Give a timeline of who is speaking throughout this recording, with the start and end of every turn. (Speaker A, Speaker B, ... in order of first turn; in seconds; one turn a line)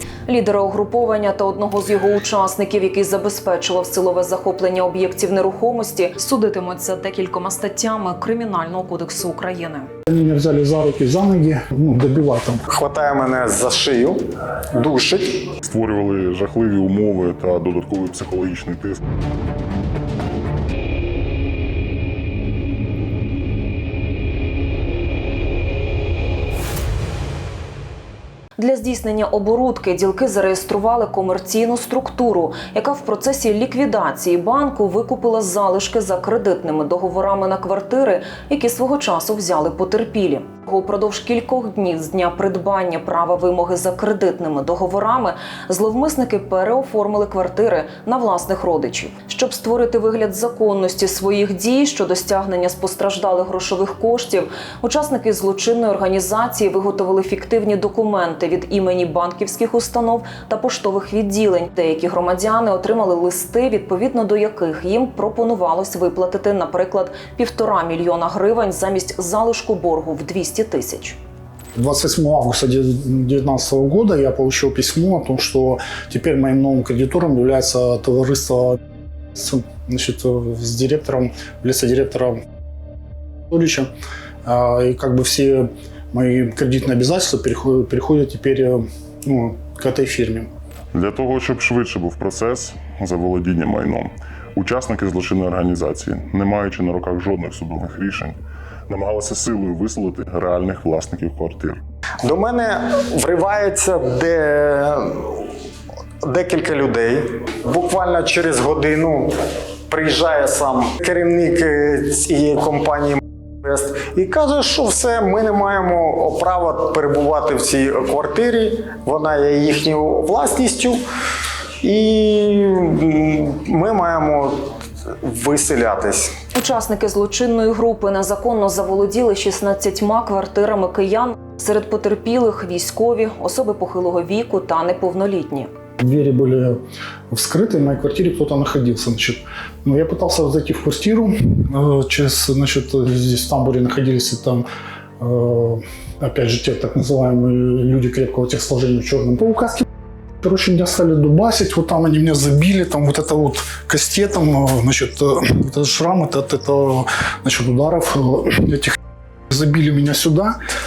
Speaker A: 0.3-9.9
Speaker B: 10.1-12.6
Speaker C: 12.7-14.2
Speaker C: 14.7-15.5
Speaker D: 15.6-19.0
Speaker A: 28.6-71.2
Speaker B: 71.8-78.8
Speaker B: 79.3-82.4
Speaker B: 83.5-83.9
Speaker B: 84.4-90.5
Speaker D: 90.9-98.4
Speaker D: 98.9-101.8
Speaker C: 102.2-105.5
Speaker C: 106.2-109.3
Speaker C: 109.9-121.0
Speaker C: 121.8-126.3
Speaker A: 126.5-135.7
Speaker B: 136.0-136.8
Speaker B: 137.3-144.7
Speaker B: 145.2-149.8
Speaker B: 150.4-158.9
Speaker B: 159.5-160.6